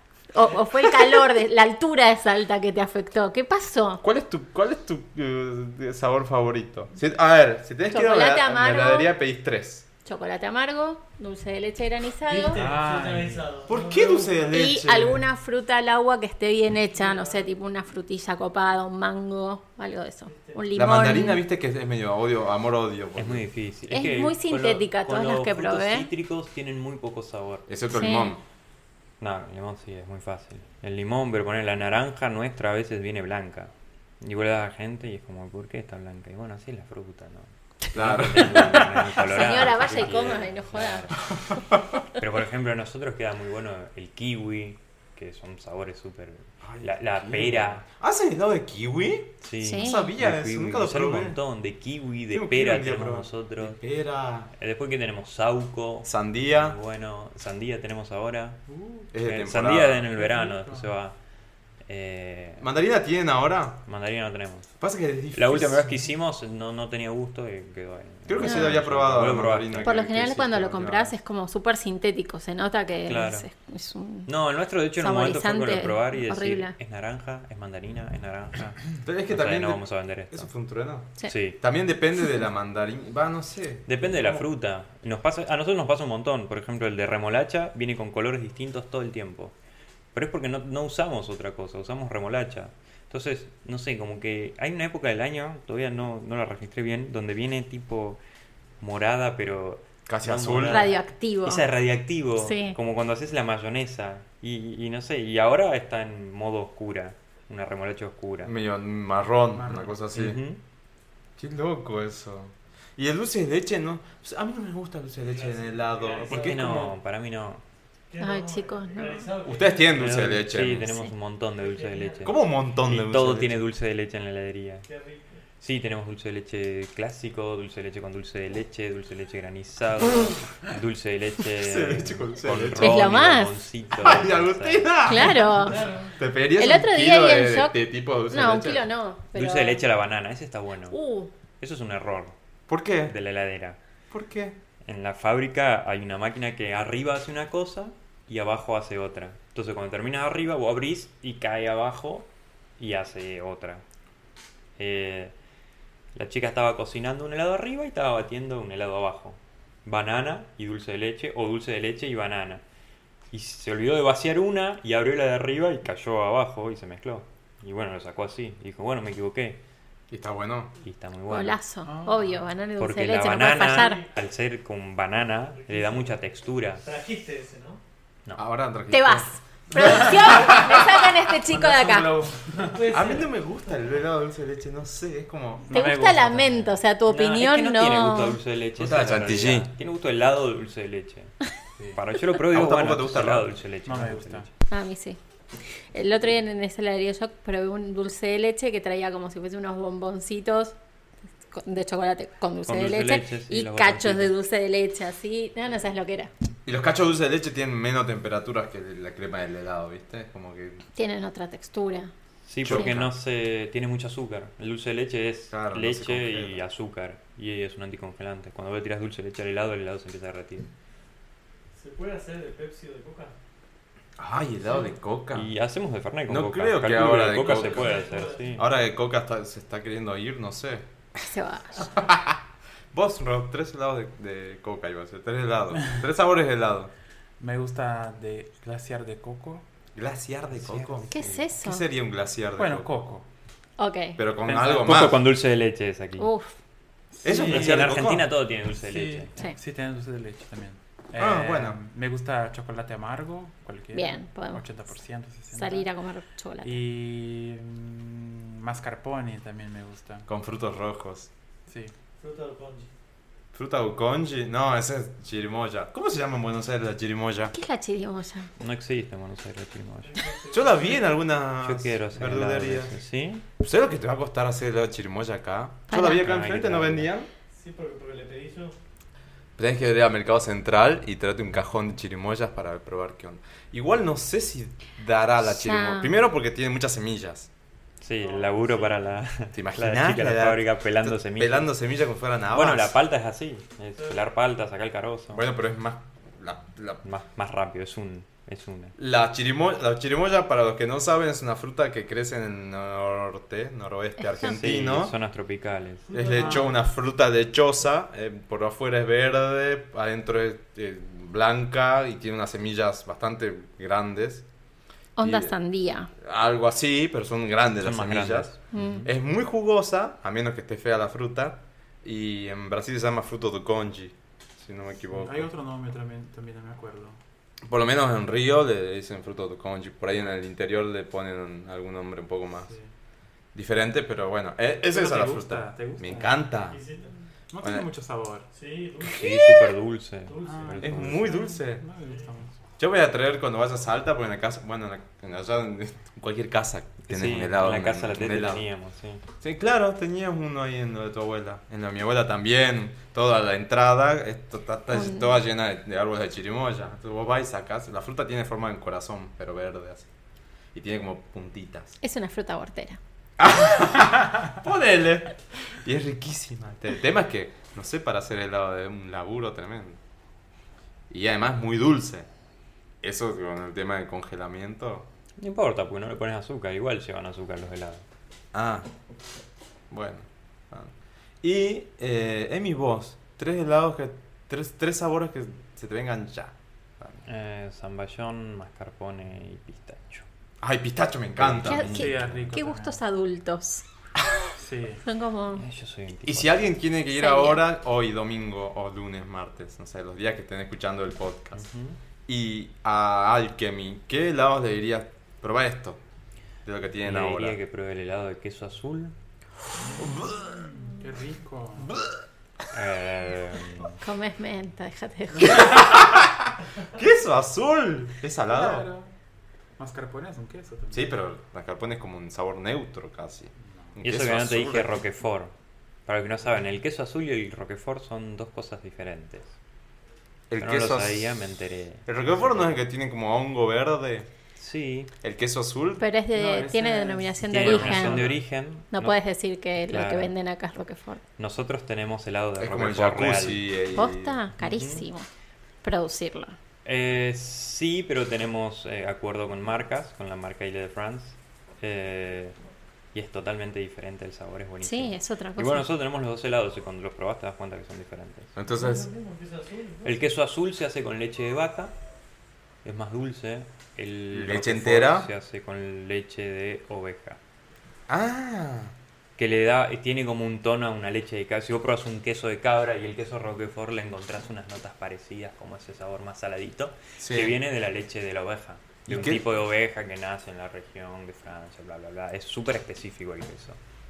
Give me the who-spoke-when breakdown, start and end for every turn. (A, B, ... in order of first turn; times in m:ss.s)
0:00.3-0:04.0 A
0:04.0-0:09.9 B
0:07.9-0:09.1 A
0:10.0-0:12.6 A
0:12.2-0:14.6 C
0:12.5-0:13.5 D
0:13.7-0:15.2 B
0:14.5-0:21.4 A
0:16.8-0:17.5 C
0:20.2-0:20.6 C
0:20.7-0:23.5 B
0:23.1-0:27.7 E
0:23.9-0:26.1 A
0:27.7-0:28.4 B
0:27.9-0:28.3 A
0:29.2-0:41.2 E
0:37.9-0:40.3 B
0:39.2-0:41.1 A
0:42.2-0:47.8 E
0:46.6-0:51.4 B
0:49.4-0:53.8 E
0:49.6-0:50.1 A
0:52.3-0:54.5 B
0:54.6-0:58.6 E
0:56.0-0:56.8 B
0:58.7-0:59.1 D
0:59.1-1:00.1 B
0:59.2-1:01.1 E
1:00.1-1:00.9 D
1:01.8-1:02.7 E
1:02.6-1:03.8 B
1:03.8-1:04.7 E
1:04.8-1:05.9 B
1:05.3-1:10.3 E
1:08.3-1:11.2 B
1:08.4-1:08.8 A
1:09.8-1:14.3 A
1:13.1-1:13.5 E
1:14.3-1:20.5 E
1:15.0-1:16.7 A
1:19.0-1:24.4 B
1:21.3-1:21.6 E
1:23.8-1:29.5 E
1:30.1-1:38.2 E
1:38.8-1:48.5 E
1:40.1-1:40.9 B
1:40.7-1:41.6 A
1:42.4-1:42.8 A
1:48.4-1:50.4 B
1:49.5-1:49.9 D
1:50.1-1:50.6 E
1:51.4-1:56.9 B
1:55.2-1:56.8 C
1:56.2-1:57.6 E
1:58.1-2:00.0 C
1:58.2-1:59.3 A
1:59.4-2:01.0 B
1:59.9-2:04.9 E
2:01.5-2:02.4 C
2:02.2-2:03.6 B
2:04.8-2:05.4 C
2:05.6-2:15.2 E
2:11.6-2:13.2 B
2:12.8-2:13.5 A
2:13.9-2:18.8 B
2:15.0-2:15.8 A
2:15.5-2:16.2 C
2:16.6-2:19.8 A
2:19.3-2:21.0 E
2:20.9-2:21.3 A
2:21.6-2:22.3 E
2:22.7-2:23.1 B
2:23.0-2:23.8 E
2:24.1-2:24.6 B
2:24.8-2:32.3 E
2:32.8-2:33.8 E
2:34.8-2:35.3 E
2:36.1-2:42.6 E
2:43.3-2:49.6 E
2:50.1-2:50.7 B
2:50.8-2:51.6 E
2:51.3-2:54.0 A
2:51.8-2:52.4 D
2:52.8-2:56.8 E
2:53.6-2:54.0 C
2:55.5-2:56.1 C
2:56.8-2:57.8 C
2:58.4-3:01.1 B
2:58.9-3:02.1 A
3:01.5-3:02.8 D
3:02.6-3:04.0 C
3:02.9-3:05.7 B
3:05.6-3:06.8 D
3:05.7-3:08.4 A
3:07.1-3:11.4 E
3:08.8-3:09.7 B
3:11.9-3:14.5 E
3:12.5-3:13.5 B
3:13.8-3:14.5 D
3:14.7-3:20.7 A
3:21.5-3:26.3 A
3:22.6-3:24.3 E
3:26.6-3:30.8 B
3:30.9-3:32.1 A
3:32.4-3:40.7 E
3:32.6-3:33.1 B
3:35.5-3:36.6 B
3:41.7-3:43.3 C
3:44.2-3:45.5 B
3:45.3-3:48.7 E
3:46.3-3:50.9 B
3:47.3-3:48.7 C
3:51.2-3:51.9 A
3:51.8-3:52.4 B
3:52.9-3:56.9 B
3:57.4-3:59.6 D
3:59.9-4:02.9 B
4:00.6-4:01.1 E
4:01.1-4:01.8 A
4:02.6-4:03.2 D
4:03.8-4:04.2 A
4:04.2-4:05.2 B
4:04.4-4:05.1 D
4:04.7-4:06.3 E
4:06.2-4:06.6 A
4:07.1-4:08.1 D
4:07.2-4:08.3 B
4:07.3-4:09.3 E
4:08.8-4:15.9 D
4:11.2-4:11.8 B
4:13.9-4:14.6 A
4:15.5-4:16.8 A
4:16.6-4:20.2 D
4:20.3-4:21.3 B
4:21.7-4:21.9 D
4:22.2-4:22.9 C
4:23.5-4:27.5 B
4:27.5-4:28.5 A
4:28.6-4:30.2 E
4:30.0-4:31.2 C
4:30.5-4:32.9 B
4:31.6-4:33.4 E
4:33.6-4:37.3 B
4:35.9-4:36.3 A
4:36.1-4:37.1 E
4:37.5-4:38.8 C
4:39.6-4:47.5 B
4:45.4-4:46.1 A
4:48.0-4:51.7 E
4:48.2-4:49.1 C
4:49.5-4:53.0 B
4:52.5-4:55.4 E
4:53.9-4:54.2 C
4:55.3-4:57.0 B
4:57.0-4:59.0 E
4:59.0-5:05.1 B
5:04.4-5:06.1 E
5:06.1-5:06.8 C
5:06.1-5:14.4 B
5:15.2-5:16.1 A
5:15.2-5:15.5 B
5:16.2-5:25.5 B
5:17.8-5:19.0 E
5:18.7-5:19.0 A
5:25.1-5:27.2 D
5:27.6-5:32.7 B
5:33.5-5:36.8 B
5:34.9-5:36.4 D
5:36.7-5:37.2 C
5:37.5-5:38.5 D
5:37.6-5:37.9 B
5:38.5-5:39.5 C
5:39.0-5:39.6 B
5:39.1-5:41.3 E
5:40.3-5:41.0 C
5:40.4-5:42.5 D
5:40.8-5:41.8 B
5:42.0-5:42.3 C
5:42.8-5:48.6 B
5:47.0-5:49.2 E
5:49.4-6:00.1 B
5:54.9-5:55.4 A
6:00.7-6:02.0 B
6:02.0-6:03.0 A
6:03.4-6:10.0 B
6:11.1-6:12.3 B
6:13.0-6:15.1 B
6:15.4-6:18.0 E
6:18.5-6:18.9 B
6:19.9-6:27.2 B
6:27.2-6:30.2 E
6:30.6-6:32.1 B
6:31.4-6:32.5 E
6:31.6-6:33.8 A
6:31.8-6:33.0 D
6:34.6-6:35.0 D
6:35.0-6:35.6 A
6:35.6-6:36.6 E
6:36.2-6:41.6 B
6:37.1-6:37.6 A
6:41.6-6:42.0 E
6:42.3-6:46.0 B
6:46.6-6:47.6 B
6:47.0-6:49.1 E
6:50.0-6:50.5 B
6:50.0-6:52.0 D
6:52.7-6:54.0 E
6:54.0-6:55.7 A
6:55.4-6:55.8 D
6:55.4-6:58.9 B
6:58.5-6:59.1 D
6:59.8-7:01.1 D
7:00.9-7:04.9 B
7:03.6-7:03.9 D
7:04.0-7:05.5 E
7:06.0-7:09.5 E
7:10.5-7:11.4 B
7:10.6-7:12.7 E
7:12.1-7:14.3 B
7:14.6-7:15.1 E
7:15.2-7:16.0 B
7:16.0-7:18.3 A
7:16.3-7:18.4 D
7:17.5-7:19.2 E
7:18.9-7:21.2 A
7:19.9-7:20.3 E
7:21.4-7:23.7 E
7:22.6-7:24.4 B
7:23.9-7:25.3 A
7:24.6-7:25.0 E
7:25.8-7:26.6 A
7:26.8-7:32.6 E
7:33.1-7:38.5 E
7:34.8-7:35.8 A
7:38.6-7:39.1 B
7:38.7-7:40.3 C
7:40.0-7:41.9 E
7:42.8-7:47.4 E
7:44.3-7:45.3 B
7:48.1-7:48.9 B
7:49.4-8:03.8 E
7:57.2-7:57.6 B
7:59.1-7:59.4 B